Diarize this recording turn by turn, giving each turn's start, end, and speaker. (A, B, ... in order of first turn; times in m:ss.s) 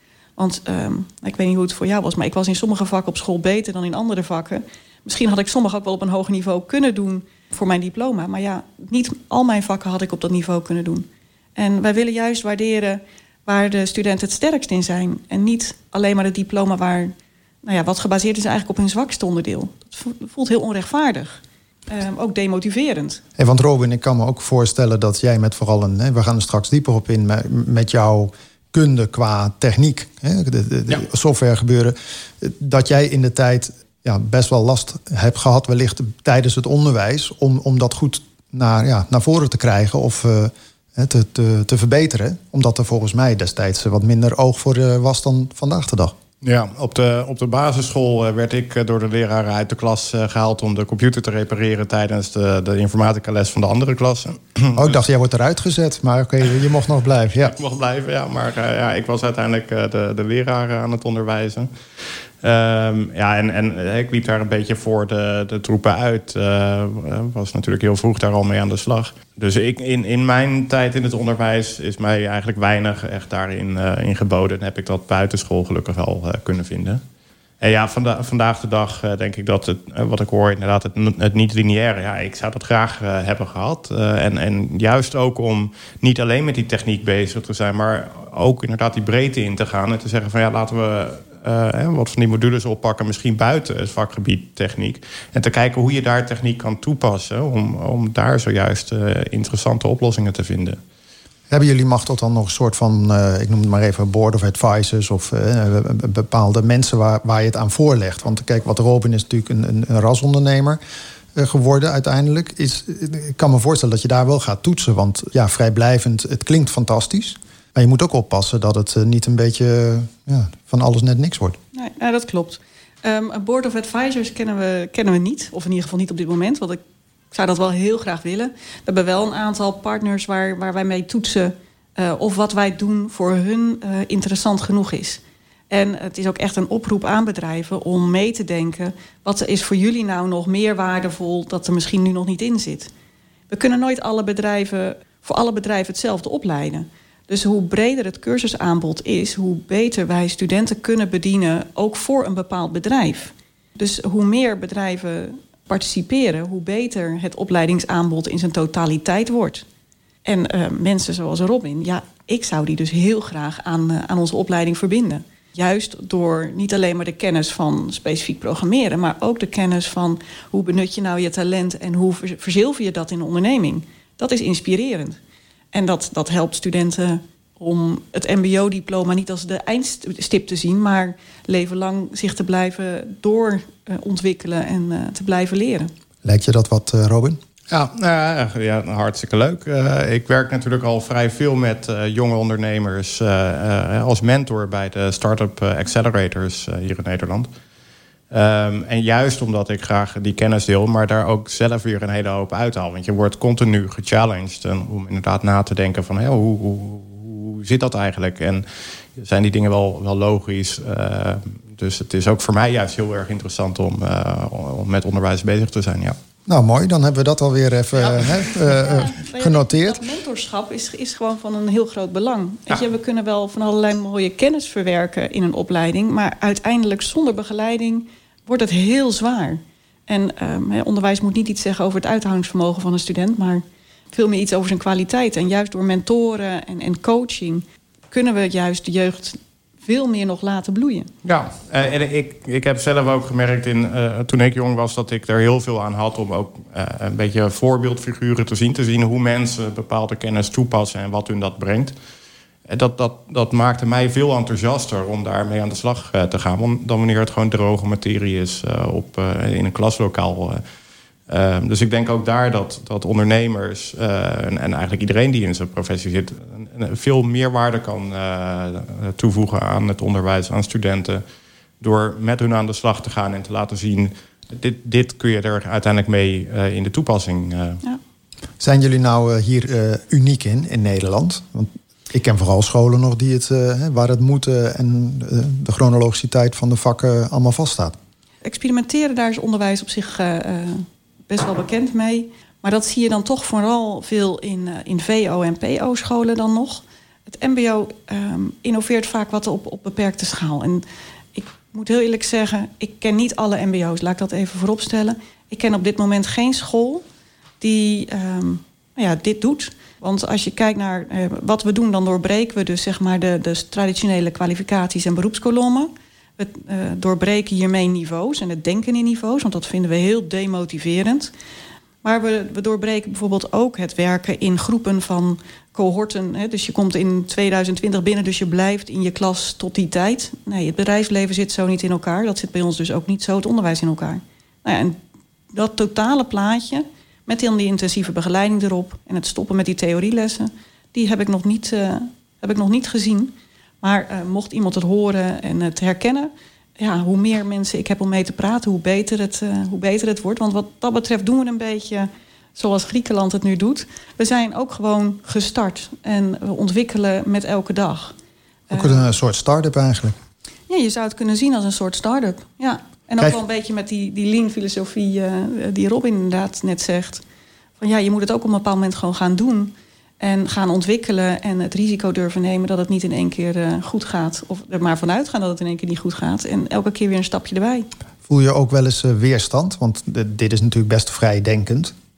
0:00.4-0:23.2 A
0:23.4-0:46.2 B
0:46.4-0:55.0 C
0:54.8-0:57.6 B
0:57.4-1:01.7 C
1:02.4-1:17.0 C
1:17.6-1:40.8 C
1:41.5-1:50.8 B
1:51.4-2:01.6 B
2:01.7-2:06.8 A
2:07.3-2:22.9 A
2:23.5-2:39.6 A
2:40.3-2:55.2 A
2:55.7-3:05.9 A
3:06.2-3:07.4 B
3:07.7-3:17.5 C
3:18.3-3:28.6 C
3:29.2-3:36.2 C
3:36.5-3:40.0 B
3:38.7-4:01.1 A
4:01.2-4:11.9 C
4:12.7-4:20.6 C
4:21.3-4:31.2 C
4:31.8-4:37.8 C
4:38.6-4:48.0 B
4:48.4-5:07.0 A
5:07.6-5:21.3 A
5:22.0-5:35.0 A
5:35.5-5:58.2 A
5:58.7-5:59.1 A
5:58.7-6:00.2 B
6:00.7-6:07.2 A
6:07.8-6:17.9 A
6:18.3-6:21.9 B